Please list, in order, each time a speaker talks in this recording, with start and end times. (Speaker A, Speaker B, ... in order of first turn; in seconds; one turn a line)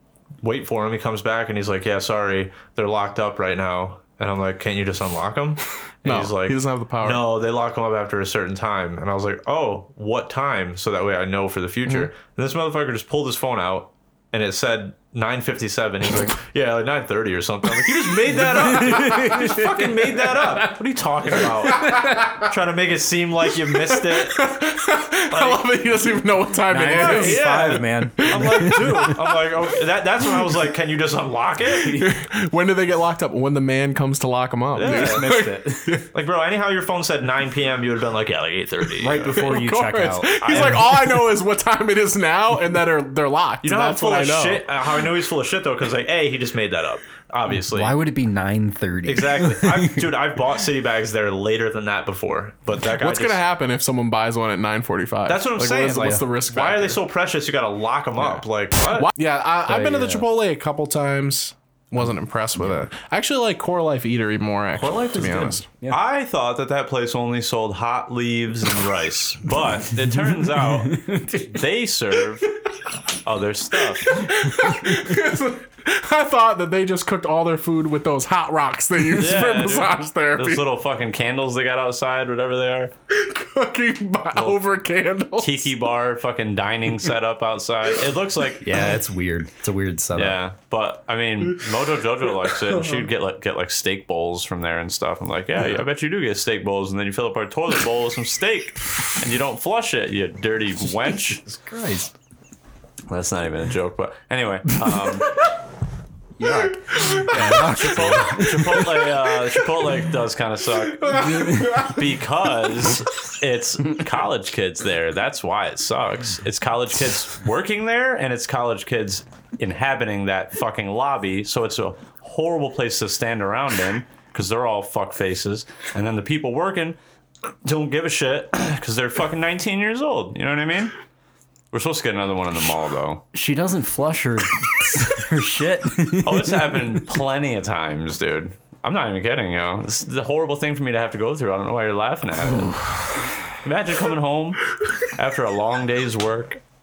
Speaker A: 0.4-24.5
Speaker B: 6.0-7.2
Speaker C: 18.7-19.7
Speaker B: 21.8-22.2
Speaker B: 23.7-27.6
Speaker A: 25.3-25.6
Speaker C: 26.7-28.8
Speaker A: 26.9-32.1
Speaker B: 28.2-29.2
Speaker B: 31.8-36.0
Speaker A: 34.7-39.5
Speaker C: 39.0-40.7
Speaker B: 39.2-44.7
Speaker A: 40.4-41.0
Speaker A: 43.6-47.9
Speaker C: 47.7-49.9
Speaker A: 49.0-53.4
Speaker B: 52.9-57.0
Speaker A: 55.3-59.1
Speaker B: 58.9-65.6
Speaker C: 59.7-60.2
Speaker A: 64.8-72.5
Speaker A: 73.2-74.3
Speaker B: 74.1-80.7
Speaker A: 79.1-82.9
Speaker B: 83.1-85.7
Speaker A: 84.3-84.6
Speaker A: 85.4-88.8
Speaker C: 88.6-90.4
Speaker A: 90.1-101.4
Speaker C: 101.6-102.1
Speaker A: 103.1-105.4
Speaker C: 106.4-108.9
Speaker B: 107.1-107.5
Speaker A: 107.3-127.0
Speaker B: 111.1-111.9
Speaker C: 111.2-111.8
Speaker A: 127.6-130.9
Speaker A: 131.7-133.2
Speaker C: 133.3-136.5
Speaker A: 136.2-146.6